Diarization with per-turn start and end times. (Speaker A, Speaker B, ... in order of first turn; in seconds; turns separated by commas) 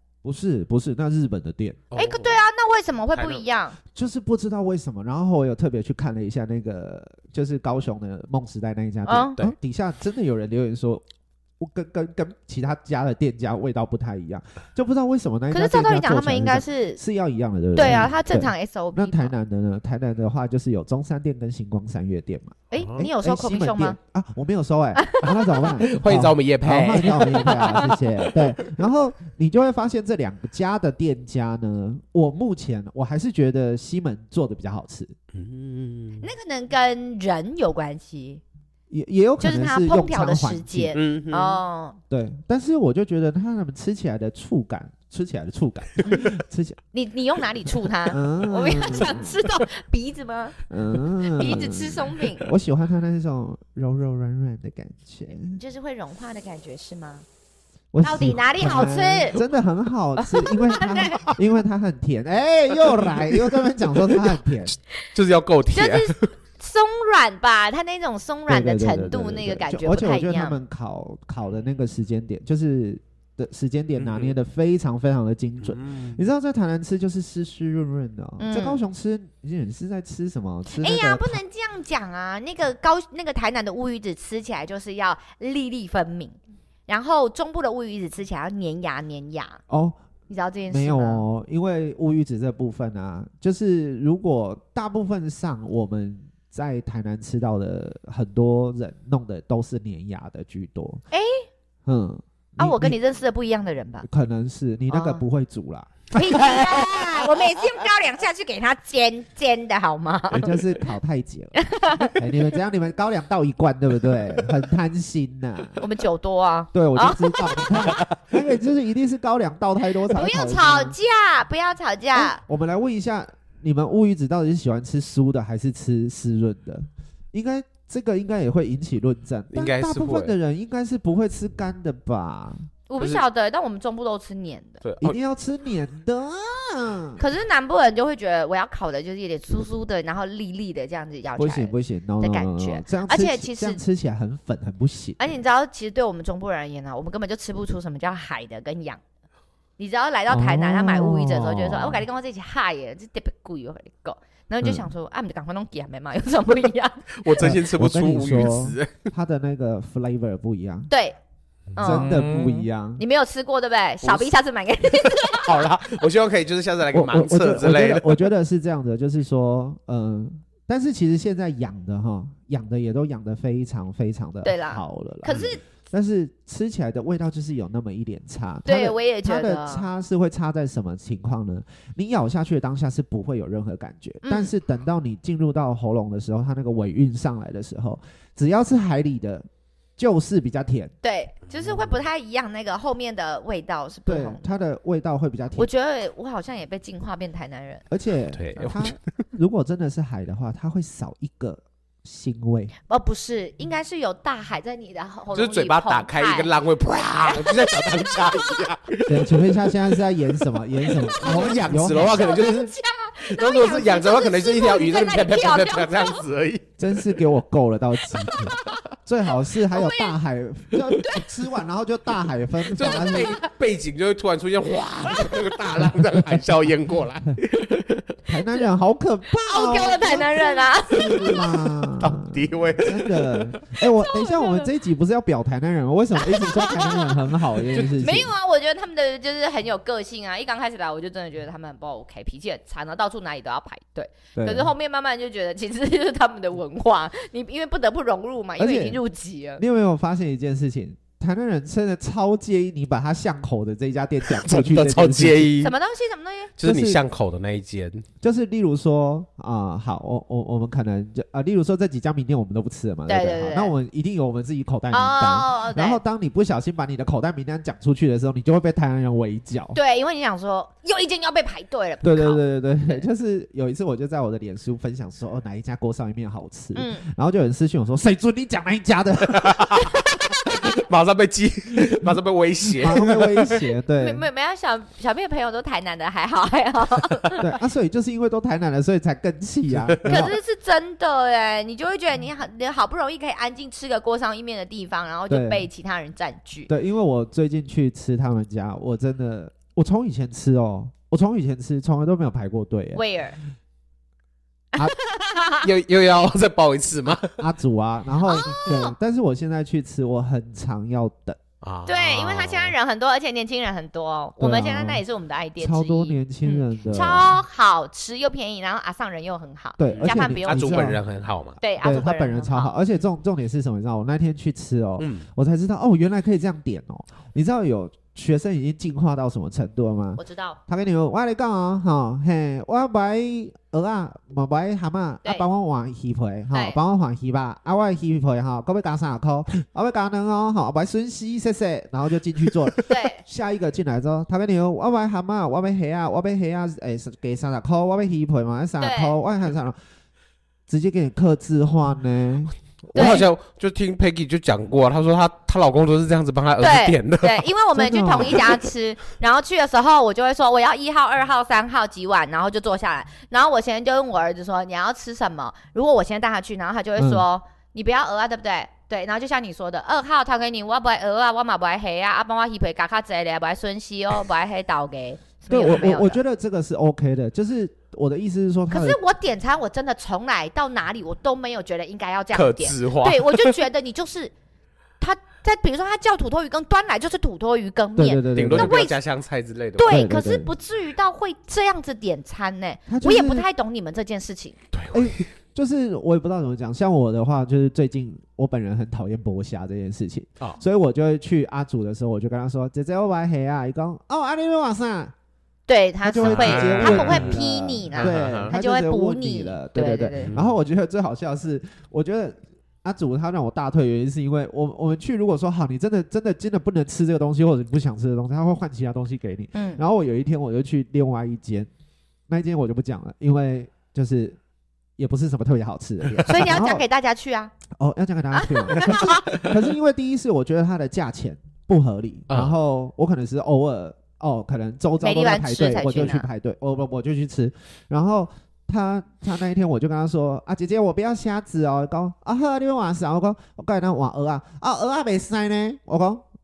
Speaker A: 0.2-1.8, Speaker B: 1.9-2.4, Speaker C: 1.9-3.8, Speaker B: 3.1-3.4, Speaker A: 3.9-11.1, Speaker C: 9.1-9.4, Speaker A: 11.6-35.1, Speaker C: 15.5-17.0, Speaker C: 17.7-19.4, Speaker B: 17.8-18.1, Speaker C: 22.7-24.0, Speaker B: 22.8-23.1, Speaker C: 25.0-25.2, Speaker B: 25.2-28.7, Speaker C: 27.4-27.9, Speaker B: 35.3-36.3, Speaker C: 36.2-38.4, Speaker A: 38.9-40.9, Speaker C: 39.4-42.0, Speaker B: 40.9-41.6, Speaker A: 42.1-46.8, Speaker C: 46.1-46.3, Speaker C: 46.9-50.6, Speaker A: 48.1-49.4, Speaker A: 50.7-55.6, Speaker C: 51.2-52.5, Speaker C: 55.4-57.2, Speaker A: 57.9-64.7, Speaker C: 58.0-59.4, Speaker C: 60.2-61.3, Speaker B: 64.7-66.3, Speaker C: 65.7-70.6, Speaker A: 68.5-81.4, Speaker B: 74.0-74.3, Speaker B: 75.6-76.2, Speaker C: 78.4-78.8, Speaker C: 80.7-89.6, Speaker A: 89.7-90.0, Speaker C: 90.3-91.2, Speaker A: 90.7-101.0, Speaker C: 101.1-101.5, Speaker A: 101.9-103.0, Speaker C: 102.6-104.1, Speaker A: 104.0-106.6, Speaker C: 104.9-105.2, Speaker C: 106.1-110.6, Speaker A: 110.3-115.8, Speaker C: 111.6-112.2, Speaker C: 115.8-118.0, Speaker A: 116.7-121.0, Speaker C: 120.1-122.4, Speaker A: 122.2-132.7, Speaker B: 129.5-130.3, Speaker C: 132.9-134.8, Speaker B: 133.0-133.2, Speaker B: 134.8-135.2, Speaker A: 135.0-137.2, Speaker C: 137.2-143.8, Speaker A: 141.4-145.3, Speaker C: 145.2-149.0, Speaker C: 149.8-157.3, Speaker A: 150.3-152.0, Speaker B: 157.2-159.1, Speaker A: 157.4-160.9, Speaker C: 160.9-161.2, Speaker C: 161.8-162.1, Speaker B: 161.8-162.7, Speaker A: 161.8-163.0, Speaker C: 163.0-165.7, Speaker B: 164.0-164.3, Speaker B: 165.4-168.3, Speaker A: 166.9-189.5, Speaker C: 174.4-175.6, Speaker C: 178.7-179.9, Speaker C: 184.2-184.5, Speaker A: 190.0-190.9, Speaker C: 191.0-194.5, Speaker A: 194.1-195.7, Speaker C: 195.6-197.8, Speaker A: 197.9-202.7, Speaker B: 198.3-199.0, Speaker C: 202.9-206.5, Speaker B: 205.3-209.6, Speaker C: 207.3-208.6, Speaker A: 209.1-212.7, Speaker B: 210.4-212.7, Speaker C: 211.2-216.2, Speaker B: 213.2-216.7, Speaker A: 216.8-223.4, Speaker B: 218.2-218.8, Speaker C: 219.7-220.2, Speaker B: 222.7-228.2, Speaker A: 225.8-226.3, Speaker A: 228.3-238.3, Speaker C: 229.4-231.5, Speaker B: 231.8-233.6, Speaker C: 233.9-234.7, Speaker C: 236.2-237.1, Speaker C: 237.8-249.6, Speaker A: 244.4-244.7, Speaker A: 248.6-249.0, Speaker A: 249.6-255.6, Speaker B: 254.3-255.7, Speaker C: 255.6-256.5, Speaker B: 256.6-258.1, Speaker A: 256.6-257.0, Speaker A: 258.2-269.8, Speaker C: 263.1-263.7, Speaker C: 264.9-266.0, Speaker C: 269.7-273.1, Speaker A: 272.0-279.9, Speaker C: 276.8-277.1, Speaker B: 279.3-283.6, Speaker C: 280.0-280.5, Speaker A: 282.7-284.2, Speaker C: 284.0-287.4, Speaker A: 287.4-290.4, Speaker C: 290.1-296.7, Speaker A: 295.3-295.7, Speaker A: 296.7-303.0, Speaker C: 302.9-303.4, Speaker C: 304.7-305.7, Speaker B: 305.6-307.4, Speaker A: 307.4-311.4, Speaker C: 308.2-308.9, Speaker B: 311.6-312.8, Speaker C: 311.9-320.9, Speaker A: 314.4-315.0, Speaker A: 315.6-317.3, Speaker A: 319.8-321.0, Speaker B: 319.9-321.6, Speaker C: 321.6-322.8, Speaker A: 321.8-349.8, Speaker B: 325.0-325.3, Speaker C: 330.2-330.6, Speaker C: 336.5-336.8, Speaker C: 342.8-343.2, Speaker C: 348.8-349.2, Speaker A: 350.7-353.2, Speaker B: 352.9-357.5, Speaker C: 352.9-353.3, Speaker C: 356.6-376.2, Speaker A: 357.8-358.6, Speaker A: 367.0-367.2, Speaker A: 375.5-379.0, Speaker C: 378.7-384.3, Speaker B: 382.3-383.6, Speaker C: 385.0-389.0, Speaker A: 388.0-388.8, Speaker B: 388.3-389.9, Speaker C: 389.8-394.6, Speaker A: 389.9-390.5, Speaker A: 392.9-393.5, Speaker B: 394.7-395.3, Speaker A: 394.9-405.1, Speaker C: 405.7-410.3, Speaker A: 406.0-421.7, Speaker B: 406.2-407.4, Speaker B: 407.9-408.5, Speaker B: 410.3-410.5, Speaker C: 419.6-419.8, Speaker A: 422.3-424.4, Speaker A: 425.0-426.8, Speaker C: 426.2-427.5, Speaker A: 427.8-446.2, Speaker C: 428.4-429.4, Speaker B: 432.3-432.6, Speaker C: 435.0-436.3